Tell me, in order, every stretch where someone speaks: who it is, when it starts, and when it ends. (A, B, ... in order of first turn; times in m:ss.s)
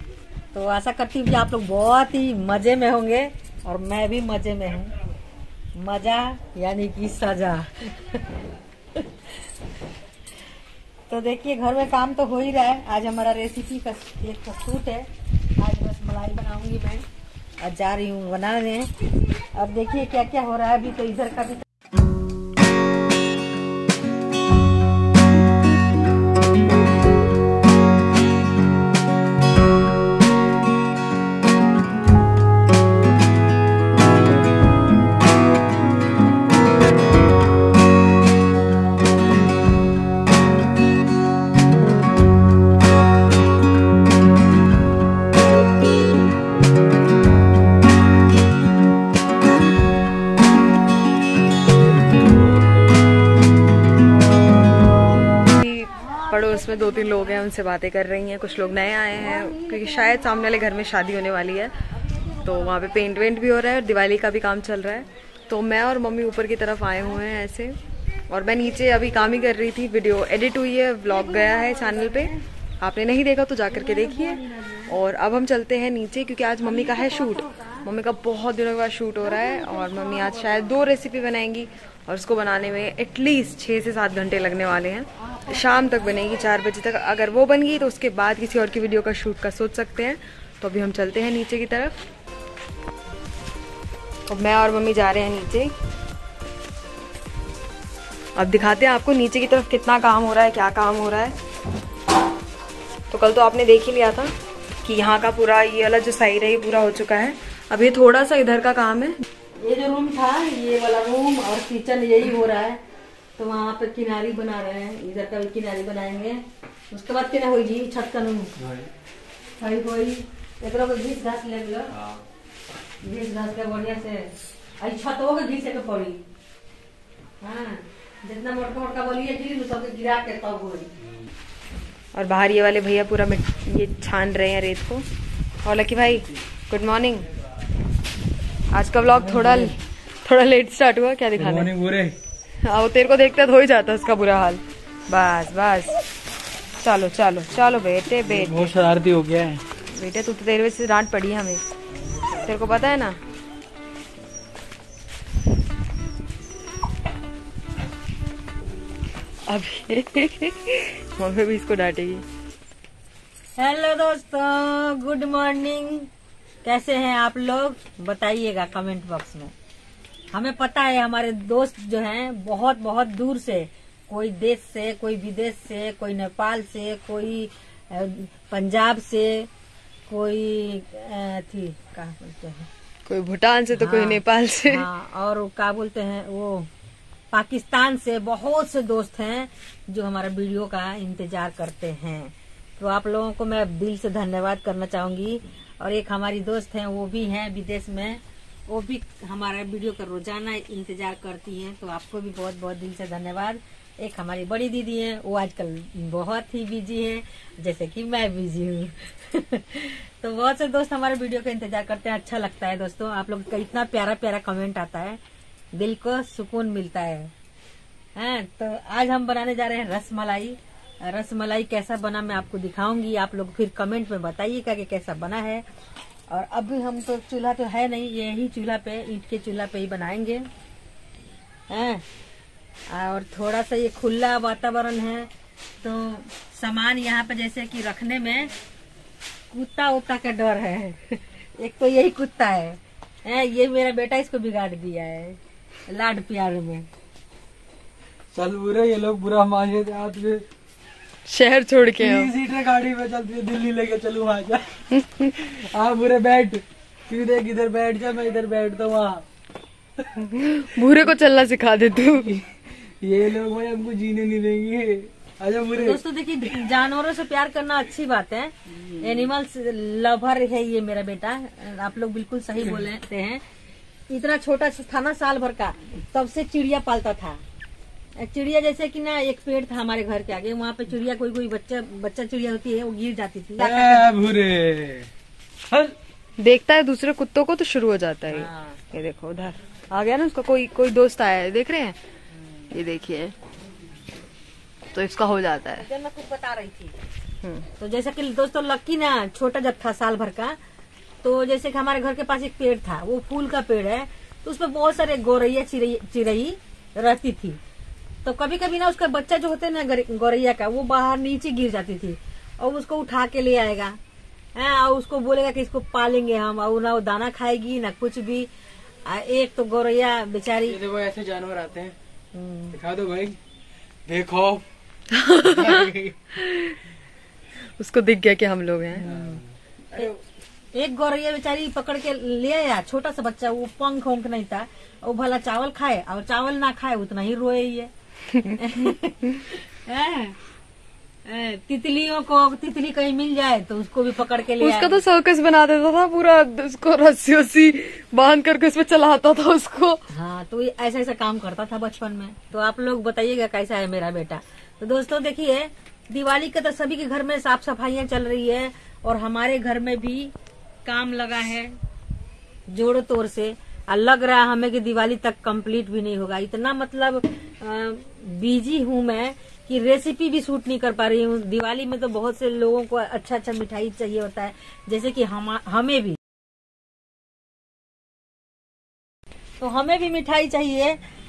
0:00.5-0:04.9 A
0:05.8-0:08.4 A
0:08.9-0:09.3 A
0:11.1-0:17.1 A
0:17.6-0:18.9 A
0:19.5-0:21.6 A
0:55.5-1:01.7 B
0:55.9-0:57.5 A
0:59.1-1:01.2 A
1:01.9-1:03.3 A
1:02.4-1:07.8 B
1:08.3-1:32.0 B
1:11.0-1:12.4 A
1:13.7-1:15.0 A
1:16.6-1:17.9 A
1:19.2-1:20.8 A
1:25.2-1:26.5 A
1:34.3-1:35.7 B
1:38.4-1:41.3 B
1:43.1-1:44.3 B
1:44.8-1:49.2 B
1:49.6-1:52.8 A
1:53.4-1:58.5 A
1:58.6-1:58.9 C
1:59.6-2:02.0 A
2:03.0-2:06.2 A
2:07.4-2:10.9 A
2:12.1-2:15.0 B
2:15.6-2:17.3 B
2:18.7-2:21.7 B
2:19.1-2:19.7 C
2:21.3-2:22.2 C
2:22.6-2:26.0 B
2:26.8-2:28.7 B
2:28.2-2:29.6 C
2:29.9-2:31.6 B
2:32.3-2:33.2 B
2:39.5-2:42.2 B
2:43.6-2:46.1 A
2:46.6-2:49.5 A
2:50.3-2:59.5 A
3:00.1-3:02.7 A
3:03.1-3:04.8 B
3:03.7-3:06.7 A
3:07.3-3:35.2 A
3:35.7-3:37.3 A
3:38.2-3:45.6 A
3:46.3-3:50.5 A
3:51.7-3:52.0 A
3:52.9-3:55.3 A
3:55.8-3:58.5 A
3:59.5-4:06.9 A
4:08.3-4:10.4 C
4:11.2-4:12.3 B
4:12.0-4:19.2 C
4:15.0-4:15.3 B
4:20.2-4:22.4 B
4:22.3-4:26.0 C
4:25.7-4:33.4 A
4:34.1-4:37.4 A
4:38.2-4:44.1 A
4:43.6-4:45.1 C
4:45.7-4:45.9 C
4:46.4-4:52.0 B
4:48.3-4:48.8 A
4:52.7-4:53.3 B
4:54.9-4:55.8 B
4:55.8-4:56.9 A
4:57.4-4:57.7 B
4:57.8-5:00.6 A
5:01.2-5:07.6 A
5:08.2-5:14.0 A
5:14.6-5:18.5 A
5:19.0-5:20.8 A
5:20.7-5:21.9 C
5:22.3-5:22.8 A
5:22.7-5:23.4 C
5:24.0-5:24.6 C
5:25.1-5:26.8 B
5:25.4-5:26.3 C
5:27.8-5:29.1 B
5:29.0-5:29.4 A
5:29.0-5:30.2 C
5:30.7-5:37.9 A
5:38.5-5:40.4 A
5:41.2-5:45.0 A
5:44.6-5:50.0 B
5:50.1-6:00.3 A
6:00.8-6:01.8 A
6:02.7-6:16.2 A
6:19.6-6:21.0 A